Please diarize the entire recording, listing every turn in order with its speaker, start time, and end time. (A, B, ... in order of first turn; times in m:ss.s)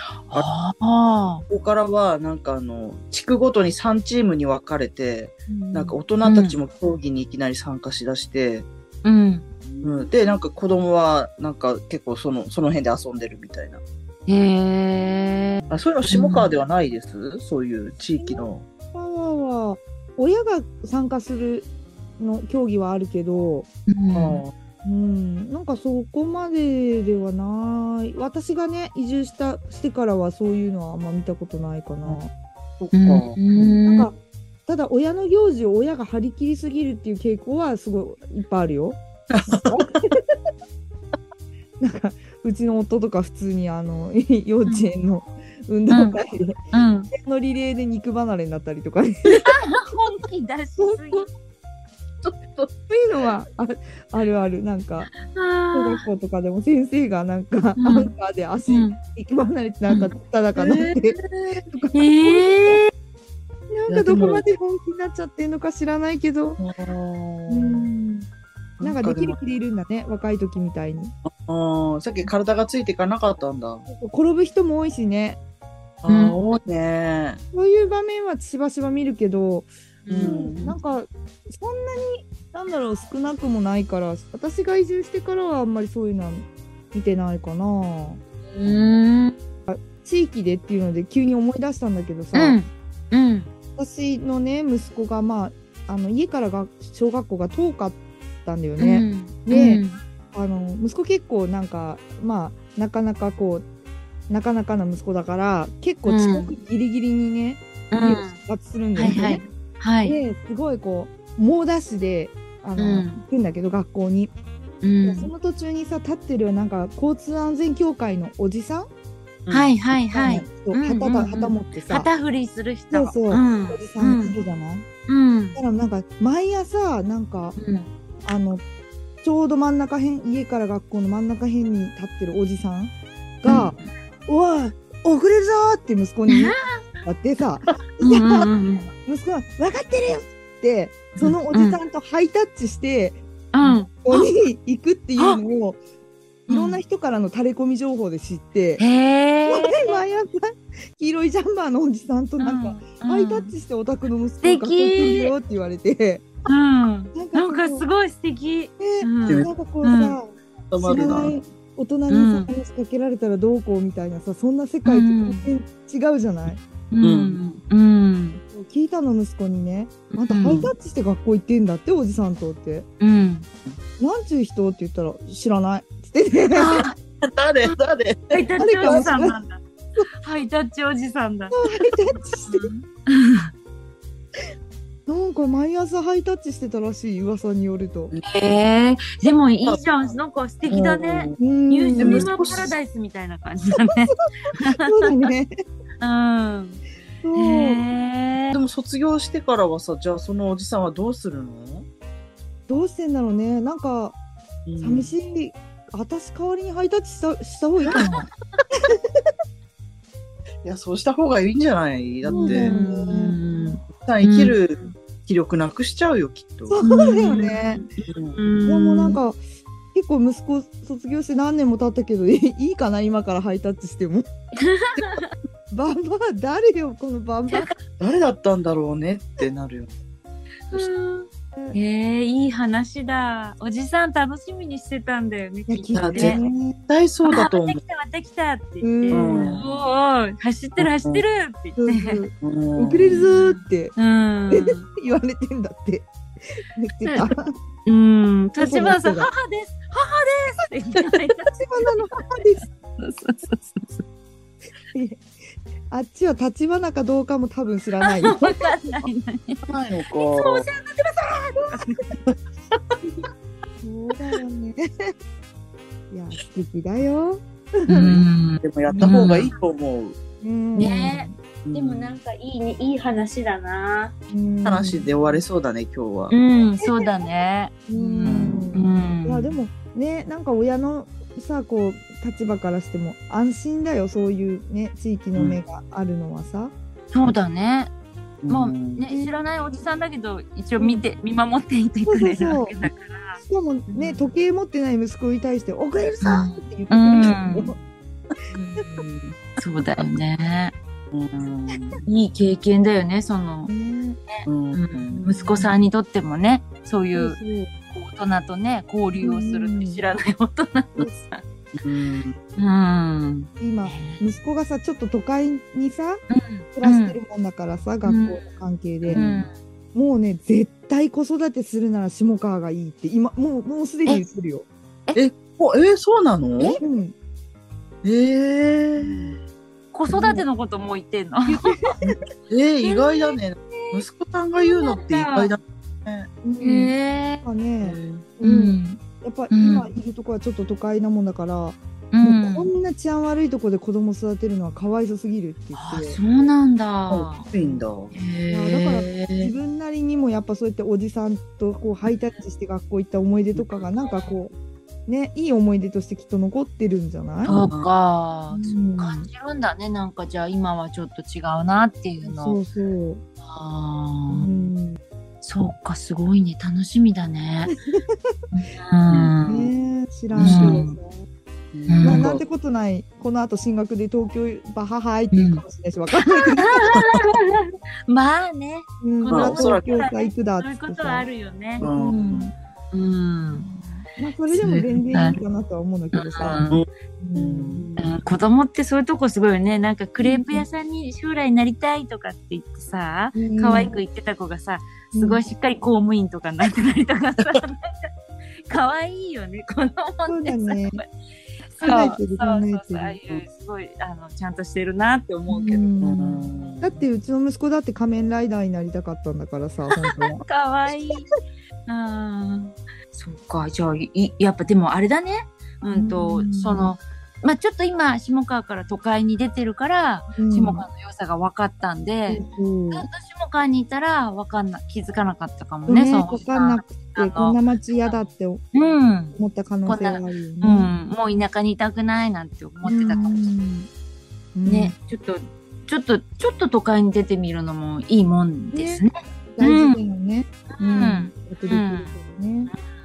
0:00.3-0:01.4 A
0:01.5-0:08.7 B
0:05.5-0:06.0 C
0:06.2-0:06.6 A
0:09.0-0:09.4 A
0:09.7-0:10.2 C
0:09.8-0:13.8 B
0:14.3-0:16.6 A
0:15.7-0:18.7 B
0:18.2-0:21.7 C
0:22.2-0:23.7 C
0:23.9-0:24.4 A
0:24.1-0:24.5 B
0:24.8-0:32.3 C
0:32.8-0:33.7 B
0:32.9-0:34.1 A
0:33.8-0:34.1 C
0:34.6-0:40.2 C
0:39.3-0:40.0 B
0:41.8-0:46.6 C
0:45.9-0:46.2 A
0:46.7-0:47.1 A
0:47.1-0:49.6 C
0:49.4-0:51.3 A
0:50.8-0:51.2 C
0:52.9-0:55.1 C
0:55.2-0:56.0 A
0:55.7-1:01.2 C
0:57.8-0:58.1 A
0:58.7-0:59.0 A
0:59.8-1:00.1 A
1:00.5-1:01.6 B
1:01.7-1:02.8 C
1:01.9-1:02.9 A
1:03.7-1:06.6 C
1:03.9-1:04.4 B
1:06.6-1:07.9 B
1:07.5-1:08.3 C
1:08.8-1:09.4 B
1:08.8-1:11.1 C
1:11.2-1:13.8 B
1:13.9-1:15.4 C
1:16.0-1:17.4 B
1:16.1-1:16.4 A
1:17.5-1:19.7 C
1:20.0-1:20.7 A
1:20.1-1:20.8 B
1:20.2-1:28.2 C
1:28.5-1:29.4 A
1:29.7-1:32.6 C
1:32.3-1:33.5 A
1:33.8-1:43.6 C
1:38.8-1:40.0 A
1:44.3-1:49.4 C
1:46.0-1:46.6 A
1:47.9-1:48.4 A
1:48.9-1:50.2 A
1:50.0-1:54.3 C
1:52.8-1:53.2 A
1:54.8-1:55.3 A
1:55.0-1:58.9 C
1:59.4-1:59.7 B
1:59.5-2:04.4 A
2:00.1-2:02.1 C
2:02.9-2:04.8 C
2:05.1-2:05.6 A
2:05.6-2:07.6 C
2:07.6-2:07.9 A
2:08.2-2:08.6 C
2:09.2-2:13.7 C
2:13.4-2:13.9 A
2:14.3-2:18.5 C
2:16.3-2:16.7 A
2:18.0-2:18.9 A
2:19.0-2:25.8 C
2:21.2-2:21.8 A
2:23.5-2:24.3 A
2:26.5-2:26.8 A
2:26.5-2:28.8 C
2:28.8-2:30.0 A
2:29.5-2:36.2 C
2:32.4-2:33.5 A
2:34.4-2:35.3 A
2:36.4-2:40.2 A
2:37.1-2:37.8 C
2:38.8-2:46.6 C
2:39.2-2:39.5 B
2:40.7-2:41.4 B
2:42.1-2:42.5 A
2:44.8-2:45.5 A
2:46.9-2:48.4 A
2:47.0-2:47.4 B
2:48.5-2:52.9 C
2:50.1-2:50.7 A
2:50.4-2:50.7 B
2:53.0-2:53.4 A
2:54.0-2:56.9 C
2:56.5-2:56.9 A
2:57.2-2:59.1 B
2:58.3-2:59.6 A
2:58.6-2:59.4 C
3:00.2-3:03.5 A
3:01.5-3:02.7 C
3:05.1-3:08.1 C
3:08.3-3:15.3 A
3:10.7-3:11.4 B
3:11.4-3:12.4 C
3:12.0-3:12.8 B
3:14.9-3:15.5 C
3:16.0-3:16.8 A
3:17.2-3:17.8 C
3:17.3-3:18.6 A
3:18.5-3:21.9 B
3:22.7-3:24.2 C
3:24.6-3:25.2 B
3:24.8-3:28.3 C
3:27.9-3:28.1 B
3:30.6-3:32.7 B
3:32.2-3:33.4 C
3:32.2-3:34.9 A
3:33.9-3:37.3 B
3:36.7-3:37.8 C
3:36.8-3:39.2 A
3:38.0-3:38.4 B
3:38.6-3:39.4 C
3:39.9-3:44.3 C
3:44.6-3:45.3 A
3:45.7-3:47.7 C
3:47.9-3:49.9 B
3:50.7-3:56.5 A
3:55.7-3:56.8 C
3:55.9-3:57.8 B
3:57.2-4:02.3 A
3:58.8-3:59.7 C
3:59.1-3:59.7 B
4:00.8-4:01.2 B
4:01.8-4:04.0 C
4:02.4-4:03.3 B
4:03.3-4:04.8 A
4:04.5-4:06.1 C
4:06.7-4:07.4 C
4:07.0-4:07.3 A
4:07.8-4:11.6 A
4:08.6-4:09.3 C
4:11.4-4:12.6 C
4:12.4-4:14.0 A
4:14.9-4:15.2 C
4:15.9-4:18.7 C
4:18.1-4:22.2 A
4:19.6-4:20.6 B
4:23.8-4:24.8 C
4:26.1-4:28.0 C
4:27.9-4:29.5 A
4:28.0-4:30.2 B
4:28.8-4:29.3 C
4:30.4-4:31.3 C
4:30.7-4:34.1 A
4:31.6-4:32.2 B
4:34.3-4:35.4 C
4:34.6-4:36.3 B
4:36.3-4:39.6 A
4:36.8-4:37.1 C
4:37.9-4:46.7 C
4:38.2-4:38.7 B
4:45.3-4:45.6 B
4:47.1-4:47.9 A
4:48.4-4:49.0 B
4:48.5-4:54.3 A
4:49.0-4:49.8 C
4:50.8-4:51.0 C
4:52.1-4:52.8 C
4:53.4-4:57.8 C
4:56.2-4:57.7 A
4:57.2-4:57.5 B
4:58.5-4:58.9 A
4:58.8-4:59.4 B
4:59.6-5:00.7 A
5:01.1-5:02.0 B
5:02.1-5:03.7 A
5:03.7-5:04.2 C
5:04.3-5:07.4 A
5:04.4-5:05.7 B
5:05.2-5:05.6 C
5:07.1-5:07.7 C
5:07.9-5:11.4 A
5:09.2-5:10.0 C
5:11.8-5:12.3 B
5:12.6-5:14.2 A
5:13.6-5:16.2 C
5:16.3-5:17.2 A
5:16.8-5:19.3 C
5:18.0-5:19.5 A
5:19.0-5:19.4 B
5:19.9-5:24.7 C
5:25.1-5:26.8 B
5:26.8-5:27.1 C
5:28.0-5:29.3 B
5:29.0-5:29.3 A
5:29.9-5:31.8 A
5:31.5-5:32.1 C
5:32.0-5:36.3 B
5:32.8-5:34.0 A
5:34.6-5:35.5 A
5:36.4-5:46.2 C
5:36.6-5:37.4 A
5:37.8-5:38.3 B
5:38.4-5:39.9 A
5:42.1-5:42.7 A
5:45.7-5:47.5 A
5:47.1-5:48.1 B
5:48.1-5:49.5 A
5:48.5-5:54.5 C
5:53.5-5:54.0 B
5:54.0-5:54.3 A
5:55.0-5:57.6 C
5:57.4-6:02.6 A
5:57.5-5:57.9 B
5:58.5-5:59.3 C
6:02.2-6:03.2 C
6:03.4-6:04.7 A
6:04.3-6:05.0 C
6:05.4-6:07.7 A
6:07.7-6:08.2 C
6:08.5-6:09.7 A
6:09.1-6:09.4 B
6:09.4-6:11.2 C
6:10.3-6:10.9 B
6:10.4-6:11.0 A
6:11.7-6:12.4 B
6:11.9-6:12.3 A
6:12.0-6:17.0 C
6:15.3-6:15.6 A
6:16.6-6:21.9 A
6:19.0-6:21.3 C
6:19.3-6:20.1 B
6:21.8-6:22.5 C
6:21.8-6:22.5 B
6:22.9-6:23.7 A
6:23.6-6:27.8 C
6:24.5-6:25.4 A
6:26.1-6:26.8 A
6:26.6-6:28.1 B
6:27.9-6:38.1 A
6:30.2-6:30.6 C
6:33.3-6:33.9 C
6:35.1-6:35.4 C
6:38.6-6:41.1 A
6:40.2-6:41.0 C
6:41.7-6:45.9 A
6:41.8-6:43.2 C
6:45.5-6:50.4 C
6:46.0-6:47.1 B
6:50.3-6:51.3 A
6:51.8-7:13.5 A
6:55.9-6:56.9 C
7:00.4-7:00.9 C
7:02.3-7:03.1 C
7:05.9-7:08.6 C
7:09.4-7:10.9 C
7:12.8-7:13.9 C
7:14.5-7:15.0 C
7:14.6-7:20.0 A
7:18.7-7:19.0 C
7:19.5-7:22.7 C
7:20.7-7:22.1 A